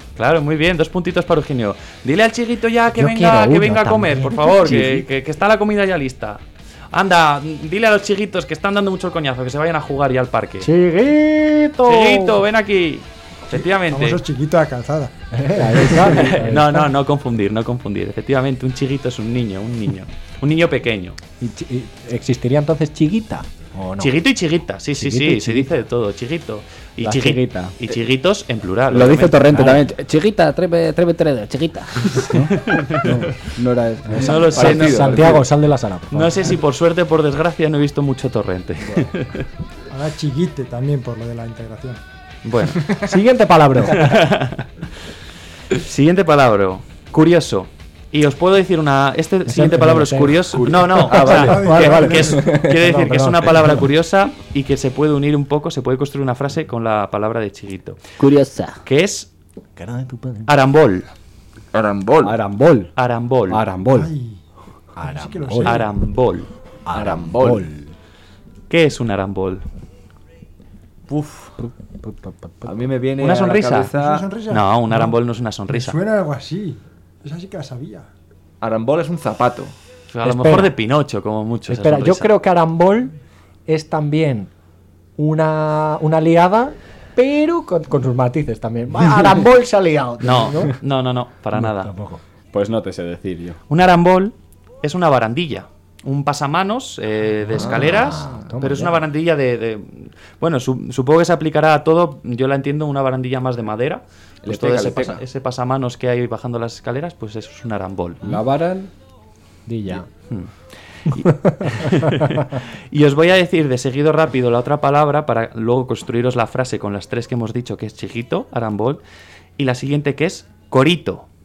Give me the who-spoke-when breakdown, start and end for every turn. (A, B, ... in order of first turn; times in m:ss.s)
0:00.2-0:10.7 A
0:03.0-0:05.1 B
0:10.6-0:12.4 B
0:11.8-0:14.2 A
0:13.5-0:15.1 C
0:15.3-0:16.9 B
0:15.8-0:21.2 A
0:21.4-0:24.2 B
0:24.0-0:29.8 A
0:25.0-0:25.7 B
0:27.0-0:27.7 D
0:28.9-0:34.9 D
0:32.5-0:33.2 A
0:34.1-0:36.5 B
0:34.2-0:35.3 A
0:34.2-0:35.5 E
0:36.1-0:39.5 A
0:39.9-0:42.0 C
0:42.4-0:42.9 A
0:43.0-0:44.2 B
0:43.9-0:44.6 A
0:45.7-0:58.0 A
0:49.5-0:51.5 B
0:51.1-0:51.4 E
0:51.1-0:52.6 C
0:51.1-0:52.5 D
0:52.7-0:53.8 B
0:58.2-0:58.8 D
0:58.8-0:59.3 A
0:59.8-1:00.5 B
1:00.5-1:01.1 A
1:01.7-1:02.4 E
1:02.2-1:02.9 D
1:03.0-1:03.6 A
1:03.5-1:04.1 D
1:03.9-1:04.4 C
1:05.0-1:05.8 B
1:05.0-1:05.9 C
1:05.6-1:06.5 A
1:06.8-1:07.9 B
1:06.9-1:07.7 E
1:08.7-1:09.6 A
1:11.6-1:12.7 B
1:12.6-1:14.3 E
1:13.2-1:13.9 A
1:13.9-1:15.1 C
1:14.5-1:16.0 A
1:15.7-1:18.1 C
1:18.6-1:19.7 E
1:20.1-1:22.3 A
1:20.2-1:20.7 B
1:21.7-1:23.2 B
1:23.7-1:24.5 B
1:25.2-1:30.8 B
1:30.2-1:31.9 A
1:31.5-1:32.2 B
1:32.5-1:33.6 D
1:33.7-1:48.2 A
1:37.5-1:39.0 B
1:37.5-1:38.4 E
1:44.4-1:45.2 E
1:48.2-1:48.9 D
1:49.7-1:50.1 B
1:51.0-1:59.0 A
1:51.2-1:52.3 B
1:59.6-2:01.2 A